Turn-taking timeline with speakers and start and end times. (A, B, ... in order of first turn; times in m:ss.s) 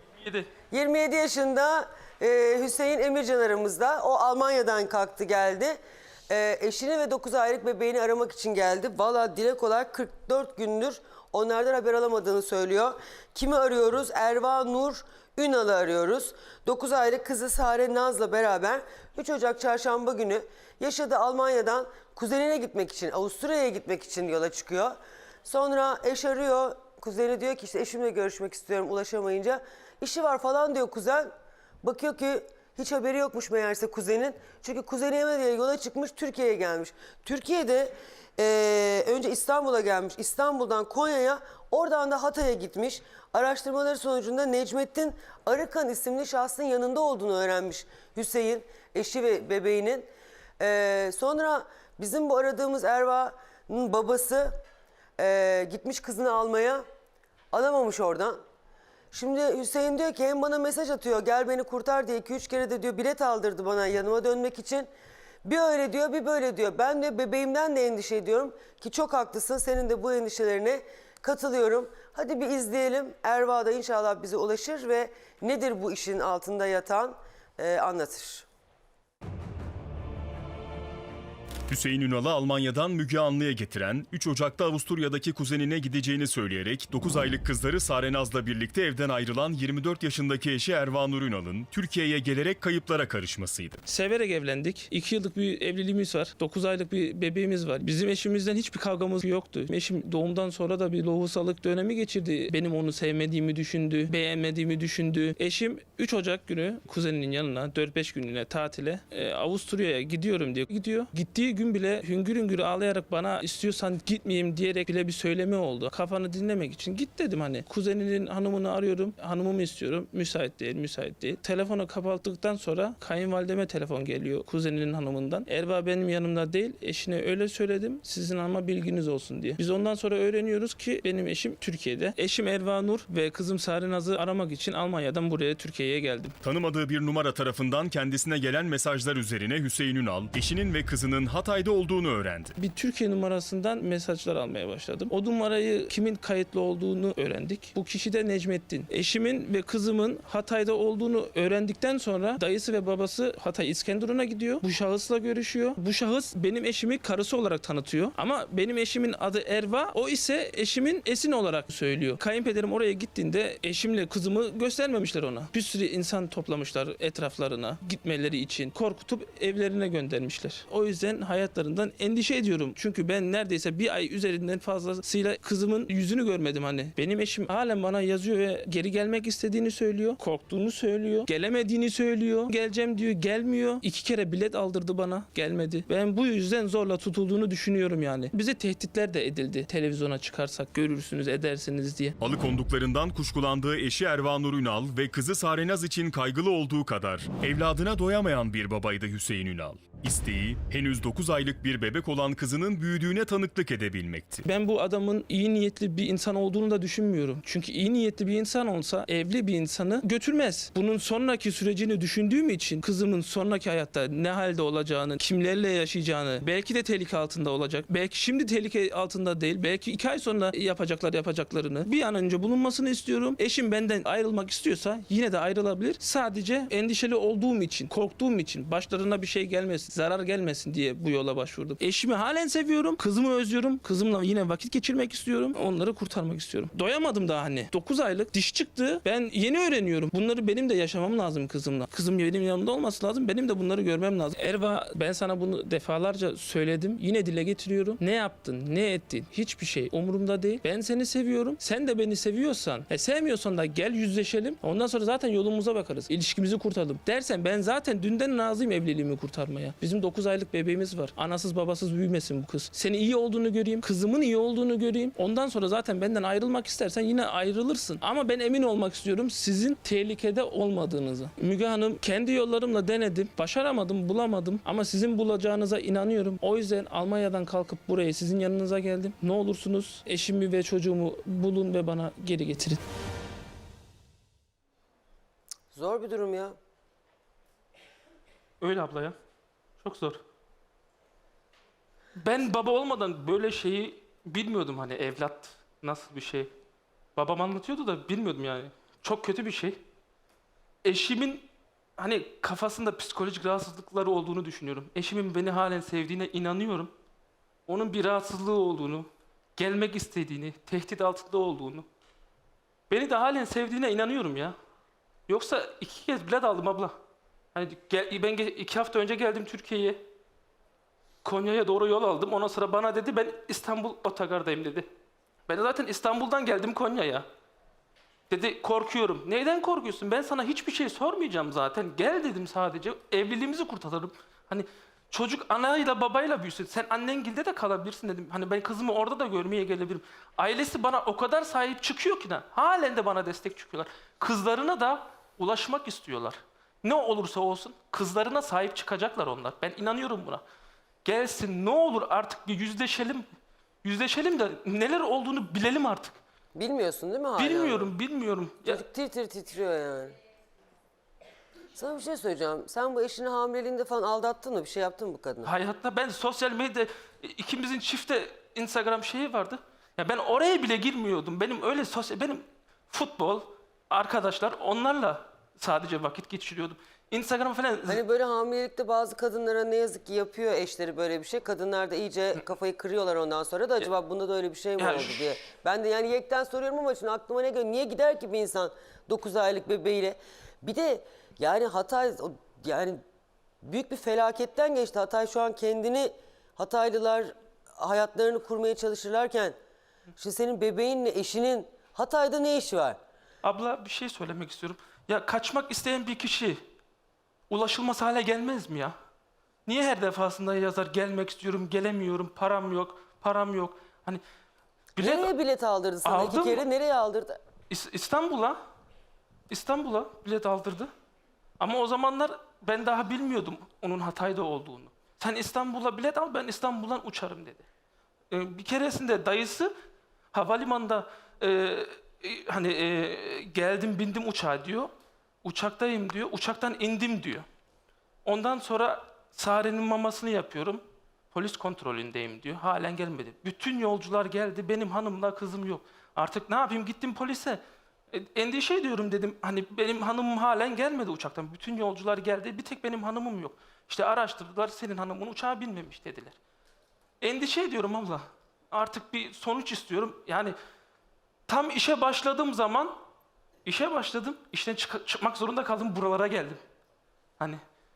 0:00.2-0:00.5 A
0:00.7-0:05.8 B
0:06.3-0:50.1 B
0:50.6-0:54.5 B
0:55.2-0:56.8 B
0:57.5-0:58.4 B
0:59.1-1:04.9 B
1:05.4-1:18.5 B
1:21.7-1:33.8 C
1:33.8-2:16.4 A
2:16.4-2:22.5 C
2:22.6-3:12.2 A
3:12.2-3:24.4 C
3:24.4-4:42.8 A
4:45.7-4:46.5 B
4:48.6-4:49.1 A
4:49.8-4:50.2 A
4:52.2-4:56.5 A
4:57.2-4:59.8 A
5:00.8-5:01.5 A
5:02.0-5:06.9 A
5:07.7-5:11.8 A
5:12.9-5:14.5 A
5:15.3-5:16.9 A
5:17.5-5:20.0 A
5:21.2-5:24.9 A
5:25.5-5:27.2 A
5:28.3-5:50.4 A
5:51.0-5:53.2 A
5:53.8-5:56.2 A
5:56.5-5:57.9 B
5:57.4-5:58.8 A
5:58.6-6:00.2 B
6:01.7-6:05.5 B
6:05.4-6:18.0 A
6:17.9-6:33.0 B
6:24.8-6:25.3 A
6:33.6-6:39.5 B
6:40.2-6:43.0 B
6:43.4-6:46.6 A
6:47.5-6:48.9 A
6:49.6-6:54.2 A
6:55.0-6:55.3 A
6:55.0-6:57.4 B
6:56.0-6:56.6 A
6:57.7-6:58.6 A
6:59.5-7:00.9 A
7:01.6-7:07.6 A
7:08.3-7:09.7 A
7:10.3-7:14.9 A
7:15.4-7:17.4 A
7:18.2-7:27.6 A
7:28.1-7:36.4 A
7:37.2-7:40.5 A
7:41.5-7:42.9 A
7:43.6-7:46.6 A